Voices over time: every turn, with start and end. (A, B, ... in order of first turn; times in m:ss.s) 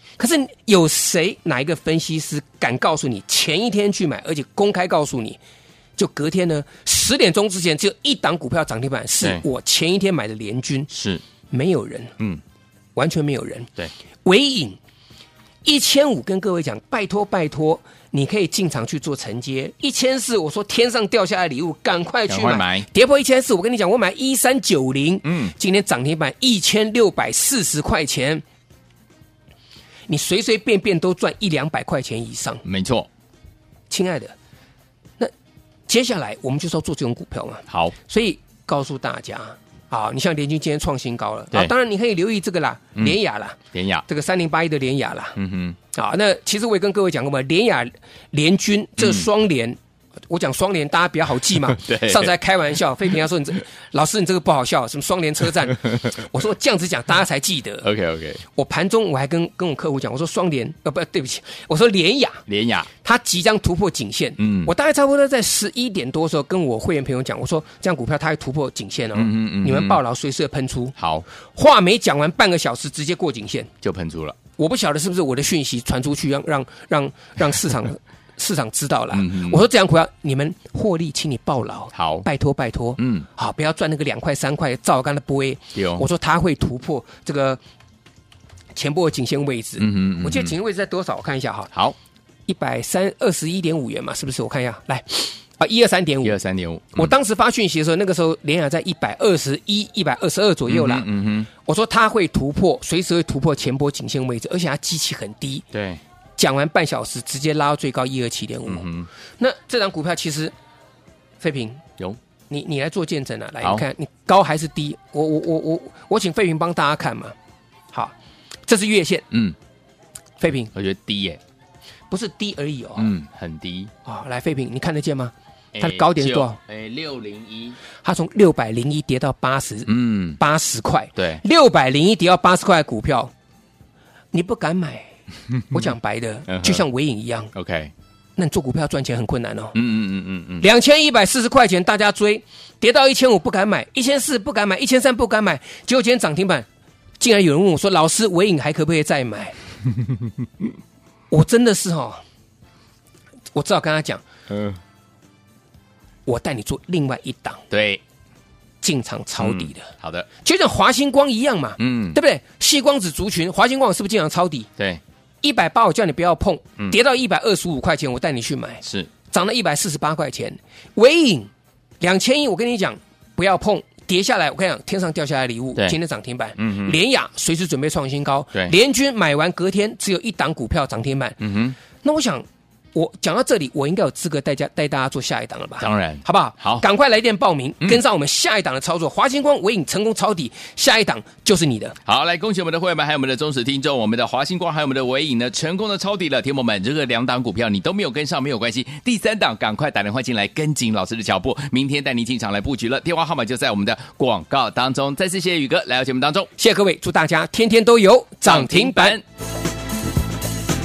0:00.2-0:05.4 A
0:06.0-0:10.9 A
0:10.9-0:11.2 B
0:11.5-0:12.1 A
0:13.0-0:13.7 A
0:14.2-0:14.8 A
0:15.6-0:28.4 A
0:22.3-0:22.9 B
0:25.2-0:25.5 B
0:30.1-0:32.6 A
0:32.6-0:33.1 B
0:33.9-0:34.3 A
0:35.9-0:45.4 A
0:37.7-0:37.9 B
0:43.7-0:44.0 B
0:45.4-0:45.8 B
0:45.9-0:49.8 A
0:49.0-0:49.3 B
0:50.3-0:57.8 A
0:51.7-0:52.3 B
0:57.8-0:58.4 B
0:58.5-1:02.4 A
1:02.5-1:02.9 B
1:03.0-1:11.0 A
1:04.4-1:04.7 B
1:09.1-1:10.0 B
1:11.0-1:11.2 B
1:11.5-1:13.7 A
1:13.8-1:14.4 B
1:14.6-1:27.6 A
1:19.1-1:19.6 B
1:21.9-1:22.3 B
1:23.0-1:23.3 B
1:25.7-1:26.0 B
1:28.7-1:31.7 A
1:29.8-1:30.5 B
1:32.5-1:36.4 A
1:36.2-1:37.1 B
1:36.9-1:41.0 A
1:40.7-1:41.5 B
1:41.6-1:45.6 A
1:45.7-1:46.0 B
1:46.4-1:48.9 A
1:48.7-1:49.1 B
1:49.4-1:50.5 A
1:51.4-1:51.8 A
1:52.5-1:57.3 A
1:58.7-1:59.2 A
2:00.4-2:00.7 A
2:00.7-2:01.4 B
2:02.1-2:03.1 A
2:03.0-2:03.9 B
2:04.0-2:06.6 A
2:05.7-2:07.8 B
2:08.0-2:13.3 A
2:09.9-2:10.4 B
2:11.2-2:11.4 B
2:14.3-2:15.1 A
2:15.7-2:17.5 A
2:16.5-2:16.8 B
2:17.5-2:17.9 B
2:18.4-2:19.8 A
2:19.7-2:20.6 B
2:20.6-2:26.6 A
2:27.2-2:29.5 A
2:31.3-2:32.2 A
2:33.5-2:34.2 A
2:34.5-2:34.8 B
2:36.2-2:37.6 A
2:37.7-2:38.0 B
2:38.8-2:39.9 A
2:39.4-2:40.3 B
2:40.4-2:44.7 A
2:41.8-2:42.2 B
2:45.4-2:51.5 A
2:48.8-2:49.1 B
2:52.0-3:01.4 A
2:56.6-2:57.0 B
3:01.4-3:01.8 B
3:02.0-3:12.0 A
3:05.8-3:06.8 B
3:12.0-3:26.5 B
3:26.6-3:29.2 A
3:28.5-3:29.2 B